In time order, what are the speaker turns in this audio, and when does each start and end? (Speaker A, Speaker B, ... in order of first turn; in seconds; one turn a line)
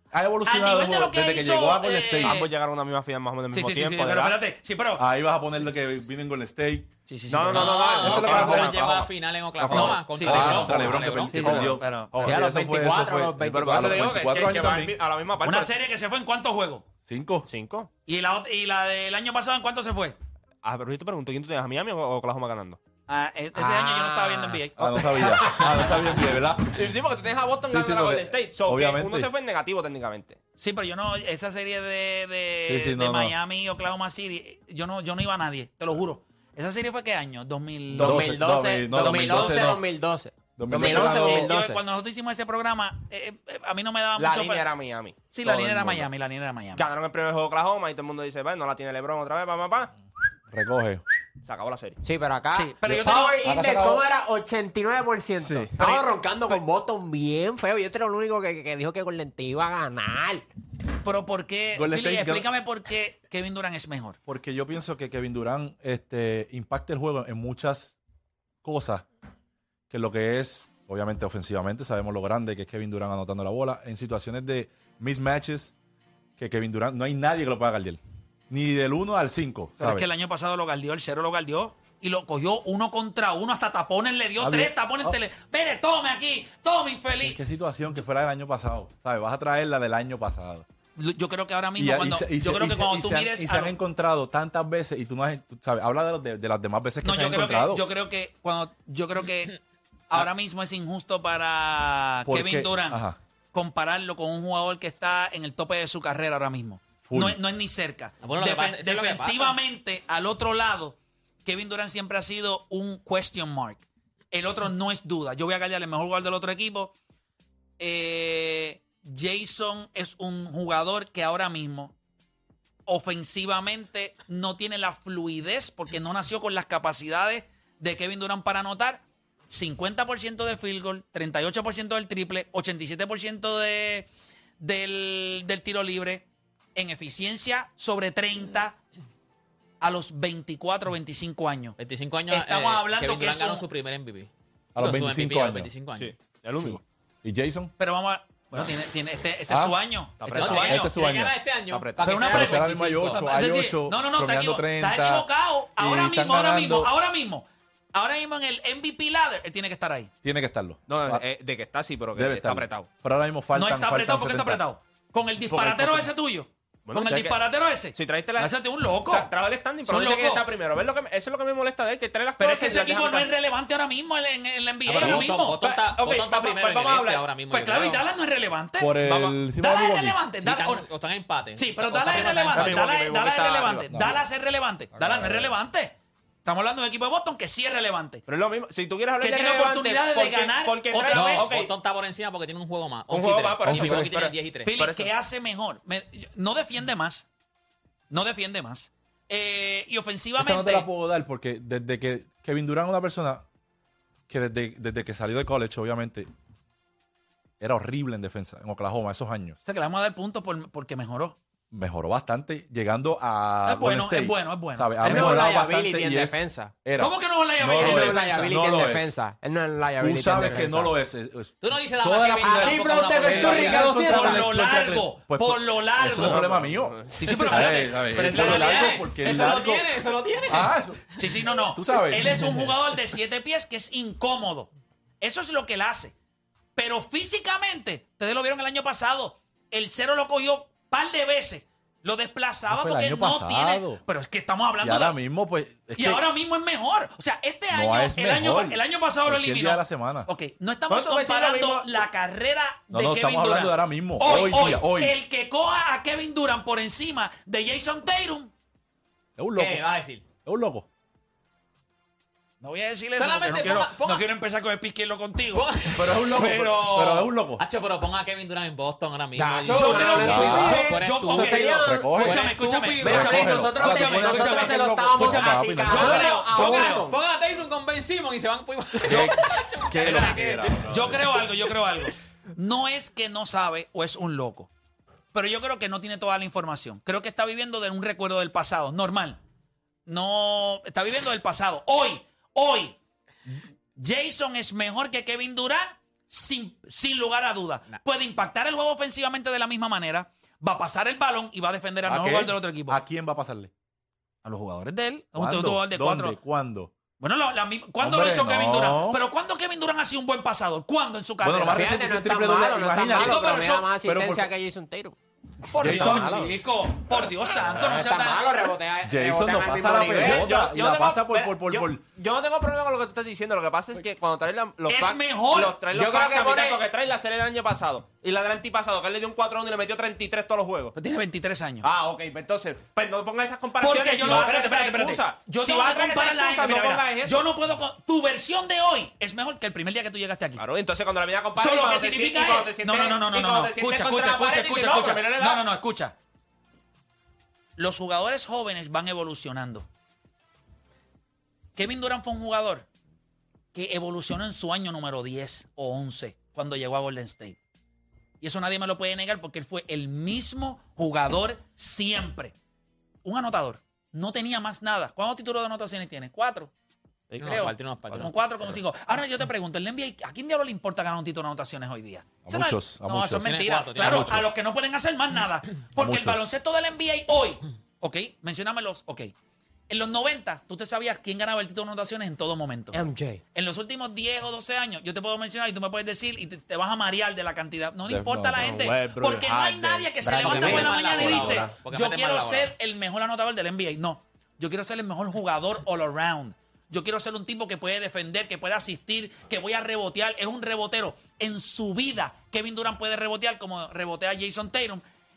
Speaker A: 0.1-2.5
Speaker B: 0.5-2.5
Speaker C: 2.2-4.4
Speaker B: 3.5-5.0
Speaker A: 5.0-6.9
Speaker B: 7.1-8.3
Speaker C: 7.3-9.1
Speaker D: 7.5-11.7
Speaker A: 8.0-8.8
Speaker C: 9.6-9.9
Speaker A: 9.6-15.0
Speaker B: 9.7-12.3
Speaker C: 10.6-11.0
Speaker C: 11.5-12.4
Speaker E: 12.2-14.1
Speaker C: 13.5-15.8
Speaker B: 15.4-16.9
Speaker A: 17.0-17.5
Speaker C: 17.4-17.9
Speaker B: 18.1-20.2
Speaker C: 20.6-22.8
Speaker B: 23.1-25.7
Speaker E: 23.5-25.8
Speaker A: 24.8-26.9
Speaker C: 26.7-30.4
Speaker A: 27.6-29.3
Speaker B: 30.6-38.4
Speaker A: 32.6-33.3
Speaker A: 38.0-39.8
Speaker E: 38.0-41.8
Speaker B: 38.9-39.8
Speaker A: 40.6-41.5
Speaker B: 40.7-44.6
Speaker C: 44.1-46.1
Speaker B: 45.3-46.9
Speaker C: 46.8-49.9
Speaker A: 50.5-51.0
Speaker C: 51.4-52.0
Speaker E: 52.0-60.5
Speaker B: 52.5-53.5
Speaker A: 53.4-54.0
Speaker C: 55.4-56.0
Speaker B: 61.0-64.2
Speaker A: 61.8-62.5
Speaker A: 64.3-68.0
Speaker A: 68.6-69.0
Speaker A: 69.9-75.7
Speaker A: 76.4-80.1
Speaker B: 79.8-87.4
Speaker A: 84.4-85.2
Speaker A: 87.2-90.6
Speaker B: 91.0-93.7
Speaker A: 91.8-97.8
Speaker B: 97.0-99.5
Speaker B: 100.1-103.0
Speaker A: 102.2-103.2
Speaker B: 103.5-116.9
Speaker A: 107.0-107.4
Speaker D: 108.2-109.6
Speaker B: 117.8-121.9
Speaker B: 122.8-134.1
Speaker B: 134.6-138.8
Speaker B: 139.8-141.8
Speaker D: 141.8-146.1
Speaker B: 142.3-143.6
Speaker A: 144.7-145.7
Speaker C: 145.9-146.8
Speaker A: 146.6-147.7
Speaker B: 147.8-150.9
Speaker A: 149.5-149.8
Speaker C: 150.2-150.8
Speaker D: 150.3-153.3
Speaker A: 150.4-151.3
Speaker C: 151.7-152.3
Speaker B: 152.0-160.1
Speaker A: 152.3-156.9
Speaker A: 160.2-161.2
Speaker C: 160.9-162.9
Speaker A: 162.1-164.6
Speaker B: 163.5-169.3
Speaker C: 165.5-166.1
Speaker C: 166.8-167.4
Speaker C: 167.9-173.3
Speaker B: 169.8-170.4
Speaker B: 172.4-175.6
Speaker D: 174.8-178.0
Speaker C: 174.9-177.2
Speaker B: 177.5-180.8
Speaker A: 178.8-180.2
Speaker D: 180.4-182.8
Speaker B: 181.6-188.2
Speaker C: 182.1-184.1
Speaker A: 183.9-184.2
Speaker A: 185.0-185.5
Speaker C: 188.3-191.7
Speaker B: 189.2-191.5
Speaker D: 191.1-194.7
Speaker C: 193.1-195.1
Speaker A: 193.6-194.1
Speaker B: 194.6-197.2
Speaker B: 198.1-200.9
Speaker A: 200.4-203.4
Speaker A: 204.3-206.3
Speaker A: 207.6-209.6
Speaker B: 209.6-211.4
Speaker A: 211.7-219.2
Speaker B: 213.6-215.5
Speaker E: 215.0-216.7
Speaker B: 217.0-218.5
Speaker E: 217.7-220.9
Speaker A: 220.0-232.6
Speaker D: 221.6-223.9
Speaker E: 222.4-224.5
Speaker B: 223.9-226.4
Speaker C: 226.1-227.6
Speaker B: 227.2-229.0
Speaker D: 227.6-230.7
Speaker B: 231.2-234.7
Speaker B: 235.2-236.1
Speaker B: 236.8-245.2
Speaker A: 242.7-244.0
Speaker A: 244.8-246.2
Speaker B: 245.9-258.5
Speaker A: 247.7-250.3
Speaker C: 250.9-252.0
Speaker A: 252.9-255.1
Speaker A: 259.4-259.8
Speaker D: 259.6-260.2
Speaker A: 260.4-260.9
Speaker B: 262.6-267.3
Speaker D: 263.2-264.2
Speaker D: 265.5-266.3
Speaker A: 265.9-267.6
Speaker D: 267.6-273.7
Speaker E: 269.4-272.4
Speaker B: 269.7-277.1
Speaker A: 270.2-270.9
Speaker A: 271.6-272.5
Speaker E: 273.0-277.2
Speaker A: 273.0-276.4
Speaker D: 276.5-281.1
Speaker A: 279.1-281.4
Speaker B: 279.1-284.7
Speaker B: 285.3-289.4
Speaker B: 290.1-293.0
Speaker B: 293.5-303.0
Speaker A: 302.1-303.7
Speaker B: 304.4-306.4
Speaker A: 305.4-306.9
Speaker B: 307.2-311.9
Speaker A: 308.0-309.2
Speaker A: 311.4-313.4
Speaker E: 311.7-315.2
Speaker B: 313.1-313.9
Speaker A: 314.0-314.5
Speaker E: 315.7-316.5
Speaker B: 315.7-318.5
Speaker A: 315.8-316.4
Speaker E: 317.7-320.5
Speaker A: 319.1-322.0
Speaker C: 320.1-330.9
Speaker B: 324.9-325.8
Speaker E: 325.9-326.8
Speaker B: 330.9-331.9
Speaker C: 331.8-337.5
Speaker B: 333.8-340.6
Speaker C: 340.6-345.7
Speaker B: 341.6-346.1
Speaker B: 347.8-349.9
Speaker B: 351.7-352.9
Speaker B: 353.7-357.6
Speaker B: 358.4-362.5
Speaker B: 363.2-366.7
Speaker C: 367.3-368.2
Speaker D: 367.4-368.3
Speaker B: 367.4-379.3
Speaker A: 372.4-374.6
Speaker D: 373.4-374.4
Speaker A: 375.9-376.6
Speaker B: 379.9-383.0
Speaker E: 382.9-383.4
Speaker B: 383.5-405.0
Speaker A: 388.1-388.8
Speaker C: 388.6-390.9
Speaker E: 390.2-391.7
Speaker D: 390.4-392.7